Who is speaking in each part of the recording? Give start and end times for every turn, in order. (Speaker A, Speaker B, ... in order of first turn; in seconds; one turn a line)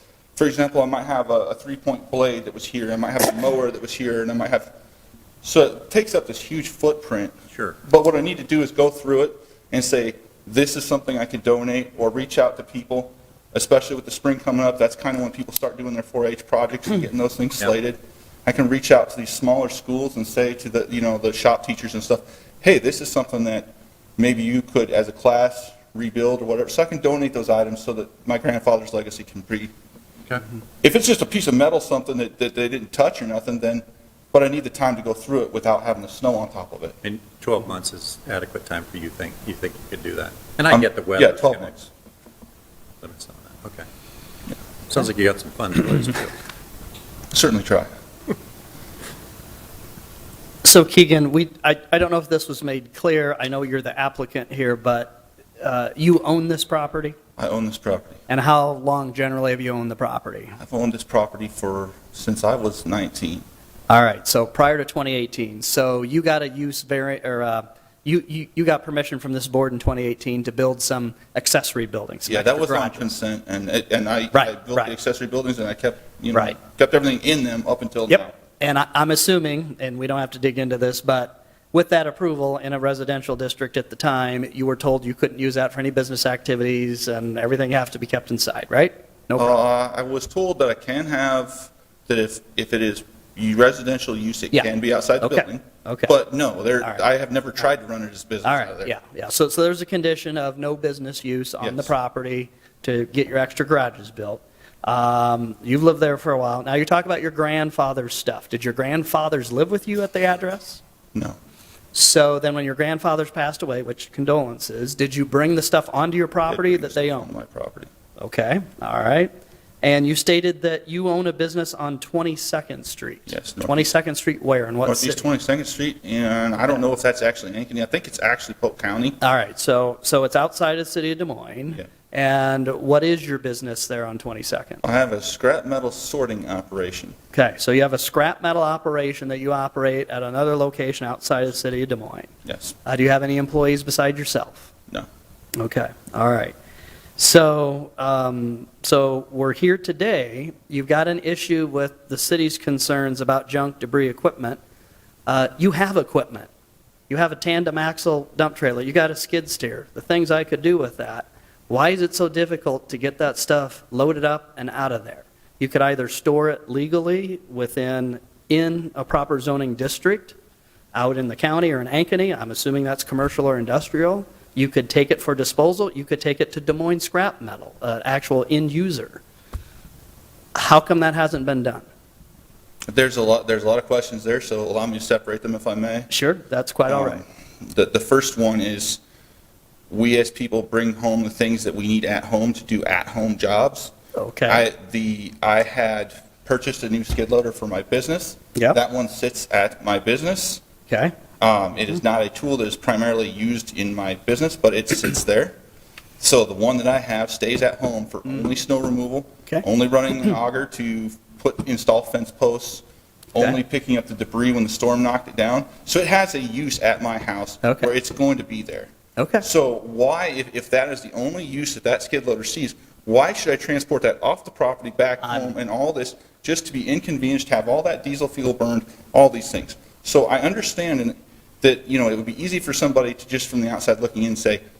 Speaker A: 0.3-4.7
Speaker A: 5.4-29.7
Speaker A: 30.8-37.0
Speaker B: 37.0-41.8
Speaker A: 40.7-41.9
Speaker B: 43.0-43.9
Speaker B: 44.9-46.3
Speaker A: 47.3-47.9
Speaker C: 50.6-57.1
Speaker A: 57.4-58.2
Speaker C: 58.3-60.6
Speaker A: 60.6-63.4
Speaker C: 63.9-73.1
Speaker A: 72.3-78.3
Speaker C: 74.3-74.9
Speaker C: 76.3-76.6
Speaker C: 78.1-89.6
Speaker A: 89.3-98.9
Speaker C: 94.5-96.1
Speaker C: 98.4-110.8
Speaker A: 101.6-101.9
Speaker C: 111.9-117.3
Speaker A: 116.5-117.9
Speaker C: 118.2-119.3
Speaker C: 119.8-125.3
Speaker A: 123.3-123.9
Speaker A: 124.8-129.2
Speaker C: 129.2-134.8
Speaker A: 134.8-137.2
Speaker C: 137.3-142.3
Speaker A: 142.4-142.8
Speaker C: 142.8-144.7
Speaker C: 145.6-146.5
Speaker C: 147.2-154.6
Speaker C: 155.3-156.5
Speaker C: 157.1-170.3
Speaker C: 170.9-179.2
Speaker C: 180.5-181.9
Speaker A: 182.9-186.1
Speaker C: 186.1-187.2
Speaker A: 186.9-189.0
Speaker A: 189.9-193.9
Speaker C: 194.1-194.7
Speaker A: 194.5-200.6
Speaker C: 200.9-201.1
Speaker A: 201.4-205.6
Speaker A: 206.2-218.9
Speaker C: 217.6-217.9
Speaker C: 219.2-219.4
Speaker A: 219.4-234.6
Speaker C: 225.2-225.5